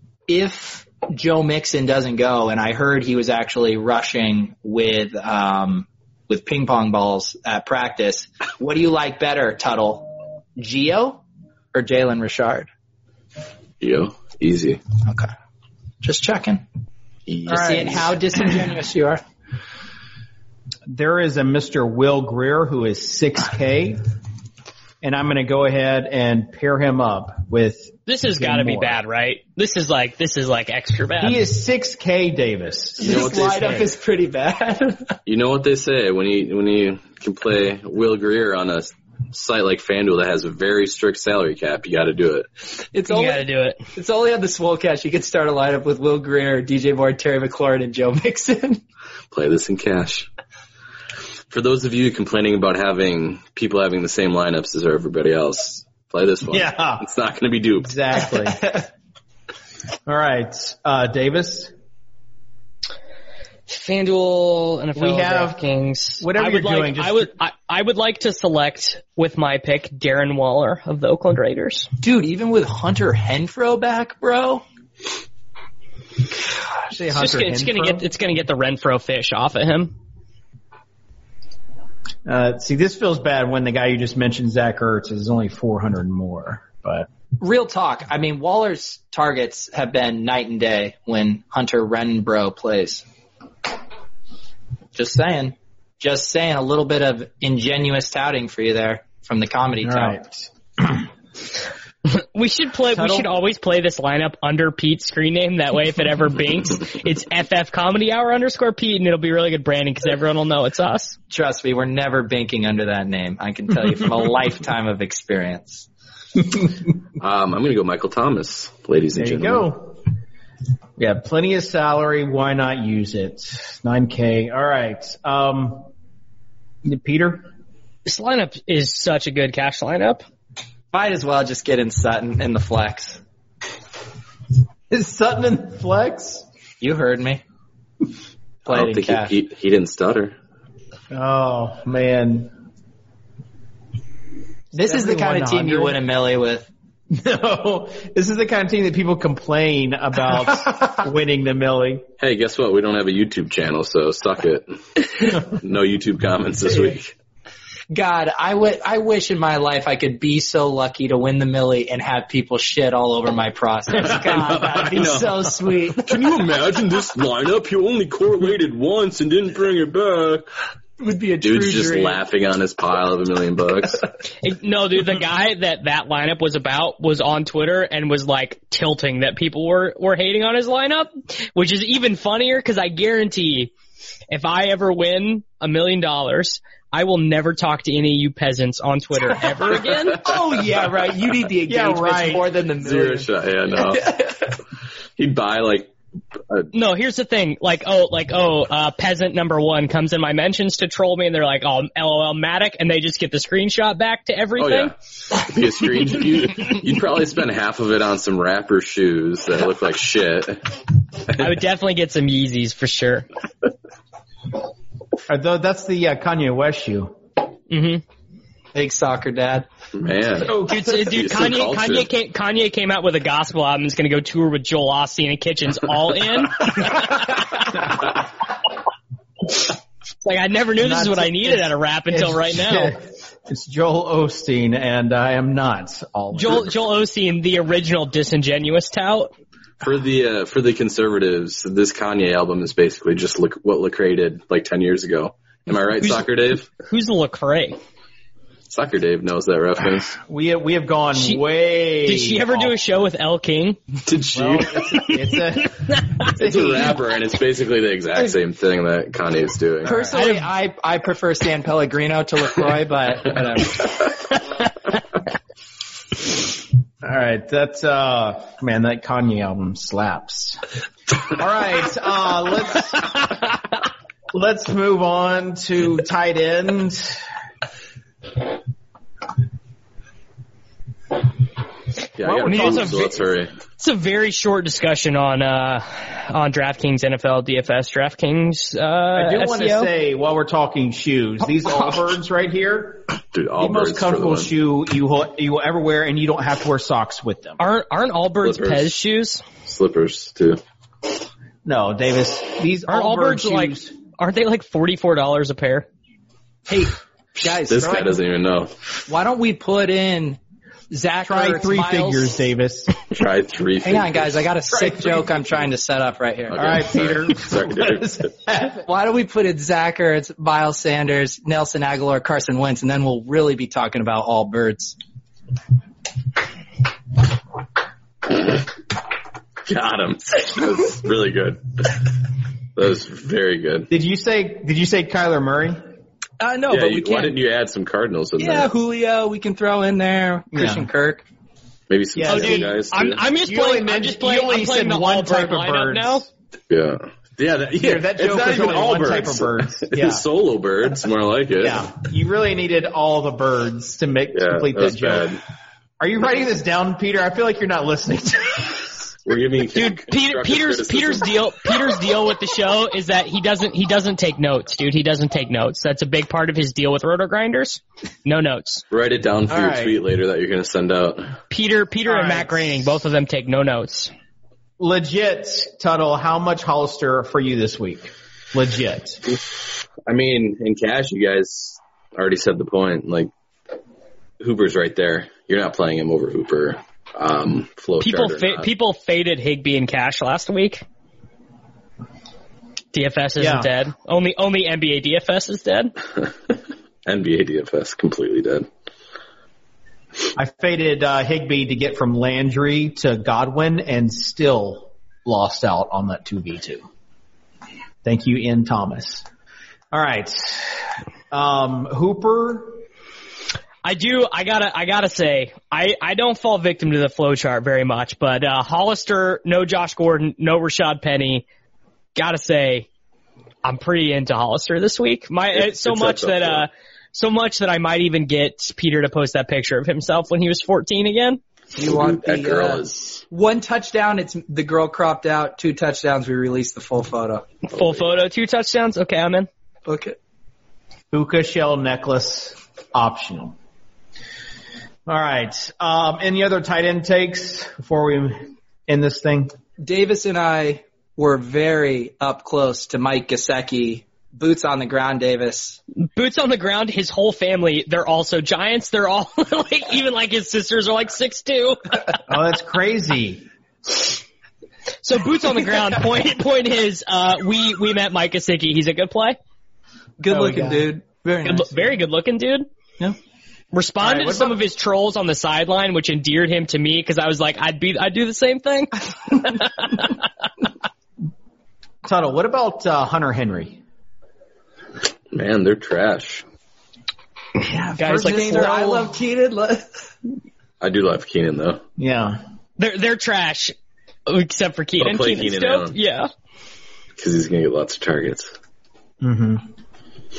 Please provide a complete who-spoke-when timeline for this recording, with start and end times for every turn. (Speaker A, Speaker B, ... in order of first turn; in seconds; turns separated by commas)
Speaker A: 0.3-11.2, Speaker A: 11.7-12.7, Speaker B: 13.8-14.8, Speaker A: 15.1-15.3, Speaker A: 16.0-16.6, Speaker B: 17.3-18.0, Speaker A: 17.5-19.2, Speaker C: 17.5-17.9, Speaker C: 20.9-24.0, Speaker C: 25.0-29.0, Speaker D: 28.1-31.4, Speaker C: 31.2-33.9, Speaker A: 33.0-35.2, Speaker B: 33.0-33.5, Speaker B: 35.2-42.5, Speaker A: 42.9-48.8, Speaker D: 43.1-43.8, Speaker B: 49.3-50.3, Speaker B: 51.5-58.0, Speaker C: 56.5-57.0, Speaker C: 57.8-58.7, Speaker A: 58.5-58.8, Speaker C: 60.1-61.7, Speaker D: 63.7-71.9, Speaker C: 65.0-65.6, Speaker C: 66.2-67.3, Speaker A: 72.0-74.6, Speaker C: 76.9-78.0, Speaker D: 77.1-79.9, Speaker C: 82.2-87.1, Speaker A: 87.4-93.0, Speaker A: 94.9-100.2, Speaker C: 99.8-101.0, Speaker D: 102.0-111.2, Speaker C: 103.0-103.2, Speaker A: 111.3-115.8, Speaker B: 117.2-119.7, Speaker C: 119.2-120.0, Speaker C: 121.0-125.9, Speaker C: 126.8-127.5, Speaker D: 128.1-130.2, Speaker A: 130.9-133.2, Speaker C: 134.9-136.4, Speaker A: 136.8-137.4, Speaker A: 138.7-139.3, Speaker B: 138.7-140.3, Speaker C: 141.1-142.5, Speaker C: 144.7-146.0, Speaker A: 144.7-146.7, Speaker C: 147.1-152.0, Speaker B: 152.2-157.1, Speaker A: 157.9-166.2, Speaker B: 163.9-165.4, Speaker B: 165.9-170.5, Speaker A: 171.0-172.2, Speaker B: 171.4-174.0, Speaker D: 174.4-183.7, Speaker D: 184.3-190.2, Speaker A: 190.1-194.5, Speaker C: 191.7-192.4, Speaker B: 192.8-194.1, Speaker B: 195.2-195.9, Speaker D: 196.7-204.9, Speaker B: 204.6-210.7, Speaker D: 211.4-213.3, Speaker C: 215.3-217.1, Speaker D: 217.7-218.0, Speaker A: 218.7-219.7, Speaker B: 219.9-222.1, Speaker C: 220.4-220.9, Speaker D: 220.6-227.8, Speaker D: 230.2-232.9, Speaker C: 230.8-236.7, Speaker D: 236.3-239.3, Speaker B: 239.8-246.7, Speaker D: 246.8-247.8, Speaker B: 248.7-250.2, Speaker C: 250.2-252.7, Speaker D: 251.1-251.4, Speaker D: 252.0-253.8, Speaker B: 254.0-255.2, Speaker C: 254.3-257.0, Speaker B: 256.2-260.0, Speaker C: 259.8-260.1, Speaker A: 259.8-263.9, Speaker D: 260.1-260.5, Speaker C: 267.0-270.6, Speaker C: 271.3-273.4, Speaker C: 274.3-277.2, Speaker B: 282.2-283.5, Speaker C: 282.2-283.2, Speaker D: 282.4-283.1, Speaker D: 283.8-289.9, Speaker C: 289.1-297.6, Speaker B: 293.3-294.5, Speaker D: 297.6-299.4, Speaker B: 298.4-298.9, Speaker B: 299.6-300.6, Speaker C: 301.6-303.9, Speaker D: 302.9-305.9, Speaker A: 306.7-308.2, Speaker B: 307.6-308.7, Speaker A: 309.1-310.4, Speaker A: 310.9-312.4, Speaker C: 311.2-313.0, Speaker B: 313.1-314.4, Speaker A: 313.8-316.7, Speaker C: 314.7-315.2, Speaker B: 316.5-318.3, Speaker C: 316.6-318.8, Speaker A: 318.8-325.0, Speaker B: 329.6-332.2, Speaker B: 332.7-333.9, Speaker C: 333.9-335.8, Speaker A: 336.4-337.3, Speaker B: 336.7-338.7, Speaker A: 338.4-341.2, Speaker C: 340.5-340.9, Speaker B: 341.9-343.2, Speaker C: 342.1-342.8, Speaker D: 342.2-346.2, Speaker C: 343.4-346.3, Speaker B: 346.7-352.0, Speaker C: 347.8-350.2, Speaker C: 351.6-355.3, Speaker B: 354.3-355.4, Speaker C: 356.0-358.9, Speaker B: 359.2-361.4, Speaker D: 359.7-368.8, Speaker B: 368.9-371.4, Speaker C: 369.5-370.0, Speaker D: 371.5-374.1, Speaker C: 372.1-372.8, Speaker C: 374.8-379.2, Speaker B: 380.1-383.3, Speaker B: 384.4-388.7, Speaker D: 388.0-390.8, Speaker D: 392.9-395.9, Speaker C: 393.4-393.7, Speaker B: 397.0-398.7, Speaker C: 400.3-406.8, Speaker C: 408.0-409.2, Speaker C: 409.9-410.8, Speaker C: 411.3-412.8, Speaker D: 413.8-421.4, Speaker D: 422.1-422.9, Speaker D: 423.6-431.4, Speaker B: 425.5-426.6, Speaker A: 431.7-437.5, Speaker B: 431.8-433.2, Speaker D: 437.7-439.5, Speaker B: 437.7-438.0, Speaker A: 439.9-440.1, Speaker C: 441.1-443.5, Speaker C: 445.1-449.5, Speaker A: 449.8-455.8, Speaker D: 456.1-462.2, Speaker C: 462.3-463.4, Speaker D: 465.0-469.4, Speaker A: 470.2-471.9, Speaker C: 470.3-470.9, Speaker D: 471.4-472.7, Speaker D: 473.7-480.1, Speaker C: 474.0-474.6, Speaker C: 482.0-483.8, Speaker B: 485.3-486.4, Speaker C: 487.7-489.1, Speaker A: 487.9-489.9, Speaker D: 487.9-488.8, Speaker B: 490.8-491.8, Speaker C: 492.0-492.4, Speaker D: 492.8-493.7, Speaker D: 494.2-496.3, Speaker B: 495.0-496.0, Speaker B: 497.2-498.5, Speaker C: 499.2-499.6